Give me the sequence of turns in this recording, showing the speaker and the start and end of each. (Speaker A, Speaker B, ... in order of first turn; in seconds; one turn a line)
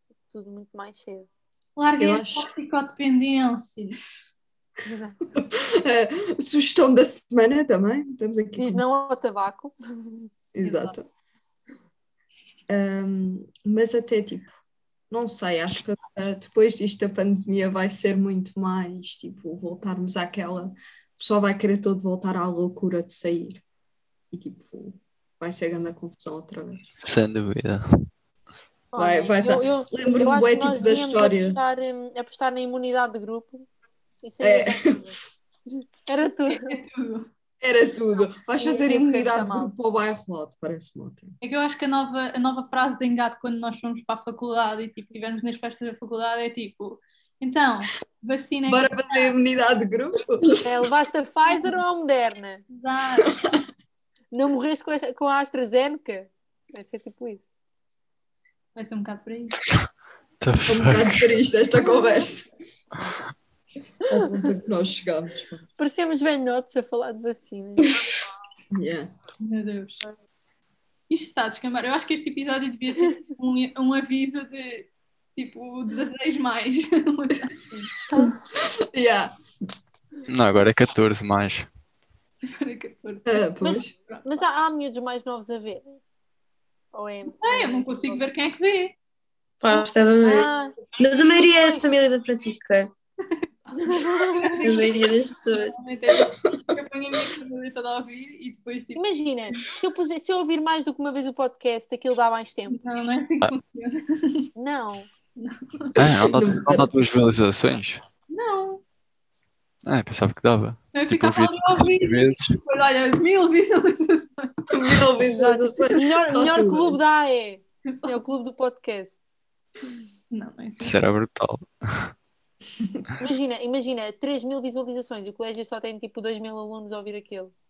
Speaker A: 0.3-1.3
Speaker B: 1.8-4.0
Speaker C: 2.0-2.5
Speaker A: 4.8-5.2
Speaker C: 5.3-8.8
Speaker A: 8.6-10.3
Speaker C: 10.5-11.1
Speaker B: 10.6-10.9
Speaker C: 12.7-14.6
Speaker C: 15.1-23.6
Speaker C: 24.3-26.9
Speaker D: 27.0-27.8
Speaker A: 28.9-33.7
Speaker C: 28.9-31.6
Speaker A: 34.2-35.2
Speaker C: 34.4-35.2
Speaker A: 35.8-36.7
Speaker B: 36.5-37.2
Speaker C: 37.6-41.3
Speaker A: 38.6-39.7
Speaker B: 41.4-49.3
Speaker C: 48.7-50.8
Speaker A: 50.6-52.6
Speaker B: 52.7-53.3
Speaker A: 54.3-57.5
Speaker B: 58.7-59.6
Speaker D: 60.4-61.1
Speaker C: 60.7-62.5
Speaker C: 64.1-65.7
Speaker A: 65.8-67.9
Speaker C: 68.7-69.1
Speaker B: 69.4-70.1
Speaker B: 71.1-78.0
Speaker C: 78.6-79.3
Speaker D: 80.3-81.7
Speaker B: 82.5-83.5
Speaker C: 83.2-83.9
Speaker A: 83.6-85.9
Speaker B: 84.1-84.4
Speaker A: 86.9-88.2
Speaker B: 87.2-88.9
Speaker E: 89.6-92.9
Speaker A: 89.7-90.8
Speaker A: 91.4-91.9
Speaker A: 93.8-94.5
Speaker B: 93.8-99.0
Speaker E: 94.6-95.8
Speaker A: 98.9-102.8
Speaker B: 102.7-104.5
Speaker A: 104.5-105.1
Speaker B: 105.3-106.1
Speaker D: 106.0-108.0
Speaker C: 106.2-106.9
Speaker B: 108.3-108.8
Speaker D: 109.8-112.6
Speaker B: 110.9-114.5
Speaker C: 114.7-117.0
Speaker A: 115.2-119.2
Speaker B: 117.9-118.2
Speaker B: 120.3-121.0
Speaker D: 120.8-122.1
Speaker A: 123.2-127.5